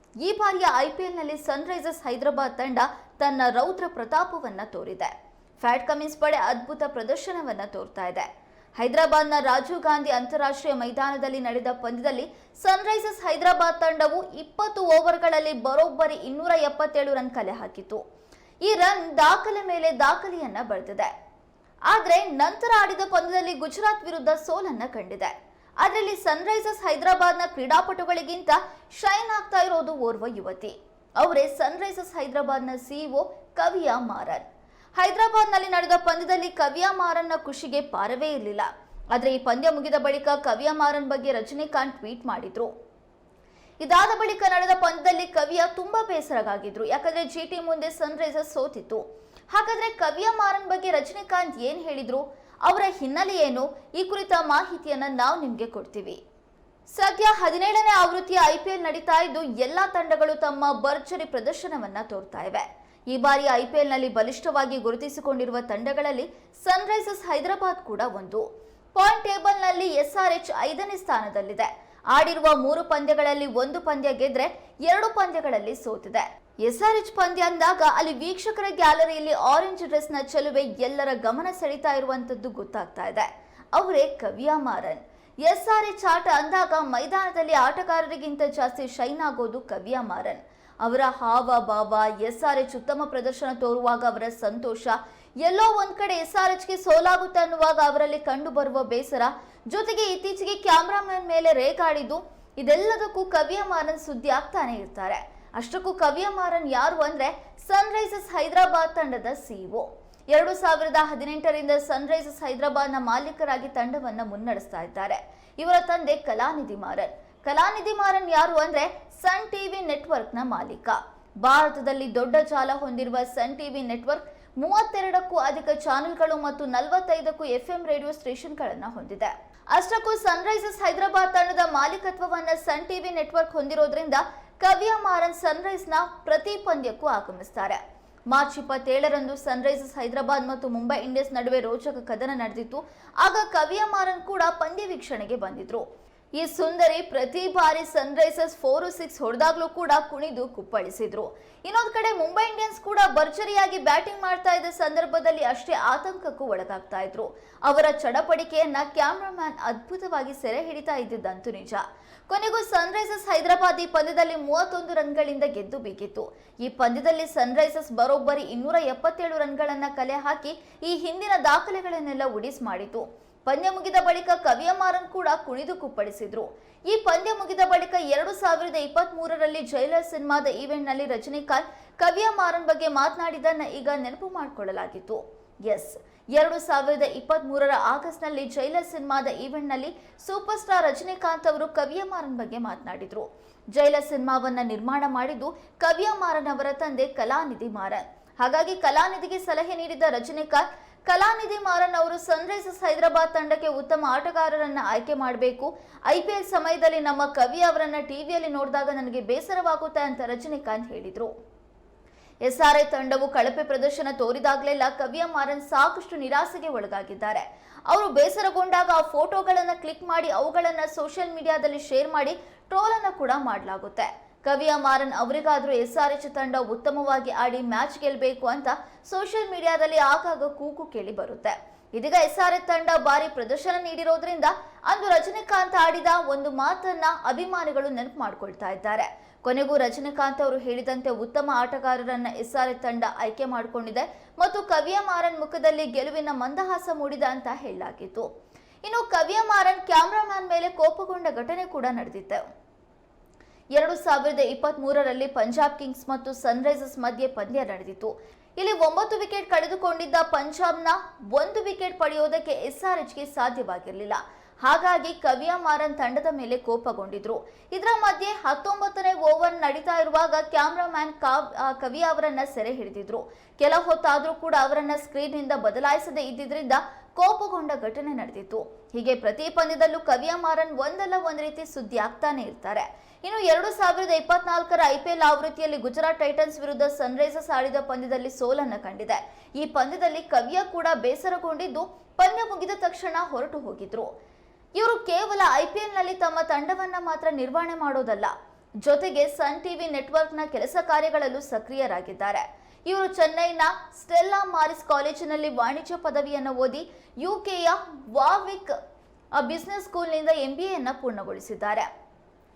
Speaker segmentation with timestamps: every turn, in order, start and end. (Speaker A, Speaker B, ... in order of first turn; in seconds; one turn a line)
Speaker A: 0.2-18.0
Speaker A: 18.6-21.1
Speaker A: 21.9-42.7
Speaker A: 43.8-56.2
Speaker A: 56.9-145.8
Speaker A: 146.4-211.3
Speaker A: 212.4-248.3
Speaker A: 248.8-252.4
Speaker A: 253.8-294.1
Speaker A: 294.8-308.7
Speaker A: 309.3-311.9